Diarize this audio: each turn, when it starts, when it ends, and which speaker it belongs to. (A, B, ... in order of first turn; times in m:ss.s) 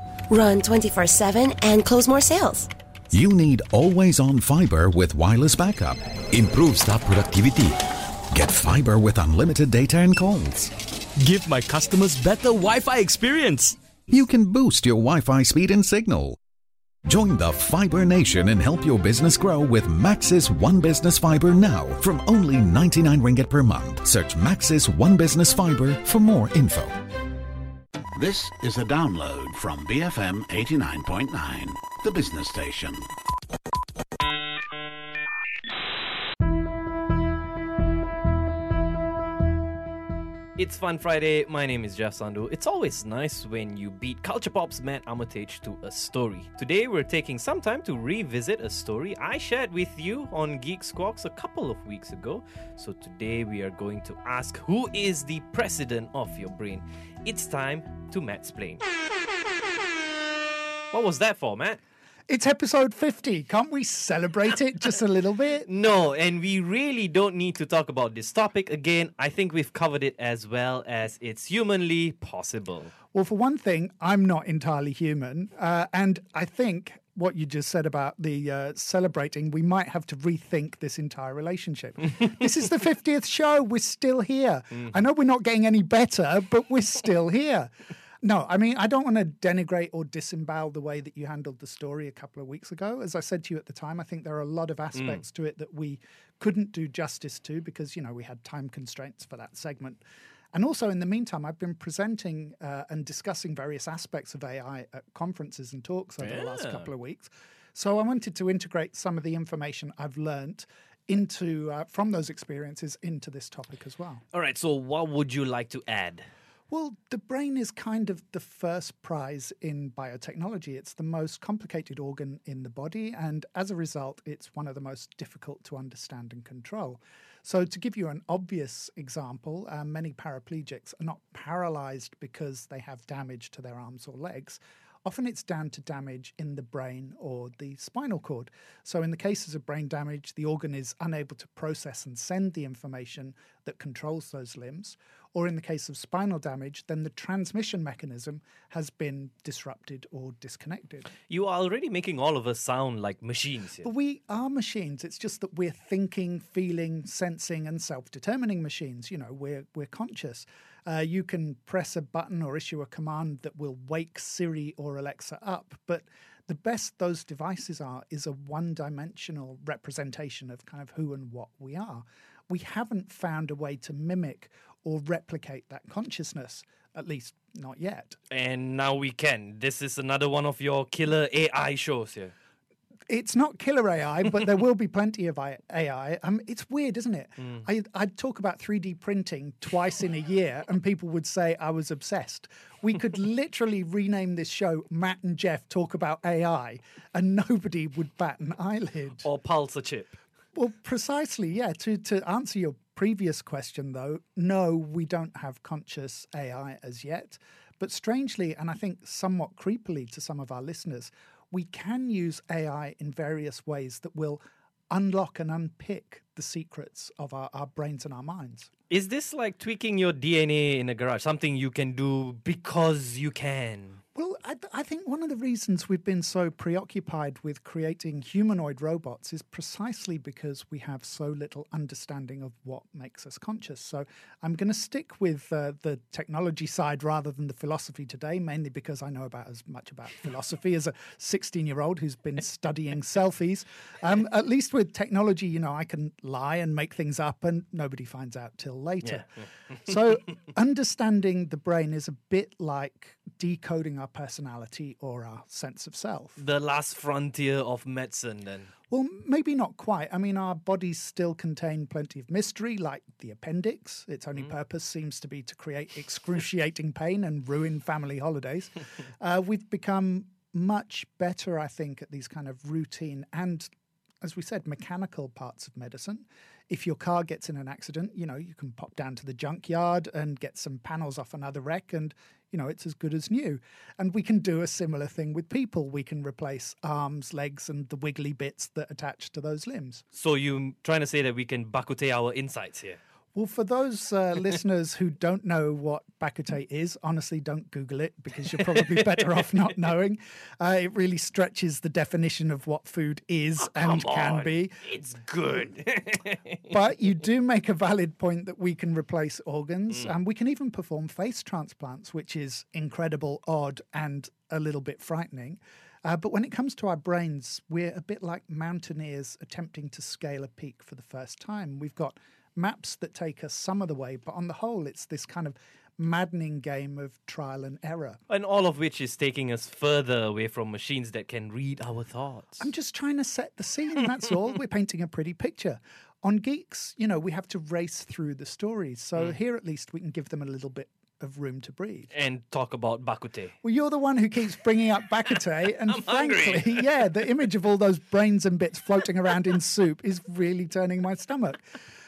0:00.3-0:02.7 A
0:03.1-0:10.7 B
0:11.2-0:13.8 C
0:14.1-0:16.4 B
0:17.0-0:26.9 B
0:28.2-0:33.0 D
0:40.6-0:58.8 E
1:00.9-1:01.8 E
1:02.3-1:05.7 F
1:05.6-1:12.9 E
1:13.1-1:40.0 F
1:40.5-1:54.2 F
1:46.2-1:46.9 E
1:54.3-1:56.3 E
1:56.7-2:31.1 F
2:31.3-2:33.9 E
2:33.8-2:58.2 F
2:58.3-3:02.3 E
3:03.1-3:19.3 F
3:19.2-3:20.2 E
3:20.5-3:38.7 F
3:38.9-3:44.0 E
3:44.1-4:09.3 F
4:09.8-4:16.4 F
4:16.4-4:18.7 E
4:18.9-4:50.0 F
4:50.1-4:53.0 E
4:53.3-5:04.9 F
4:58.8-4:59.2 E
5:03.6-5:06.6 E
5:06.7-5:28.2 F
5:28.3-5:32.6 E
5:32.6-5:42.1 F
5:42.1-5:43.5 E
5:43.6-5:51.7 F
5:45.8-5:46.8 E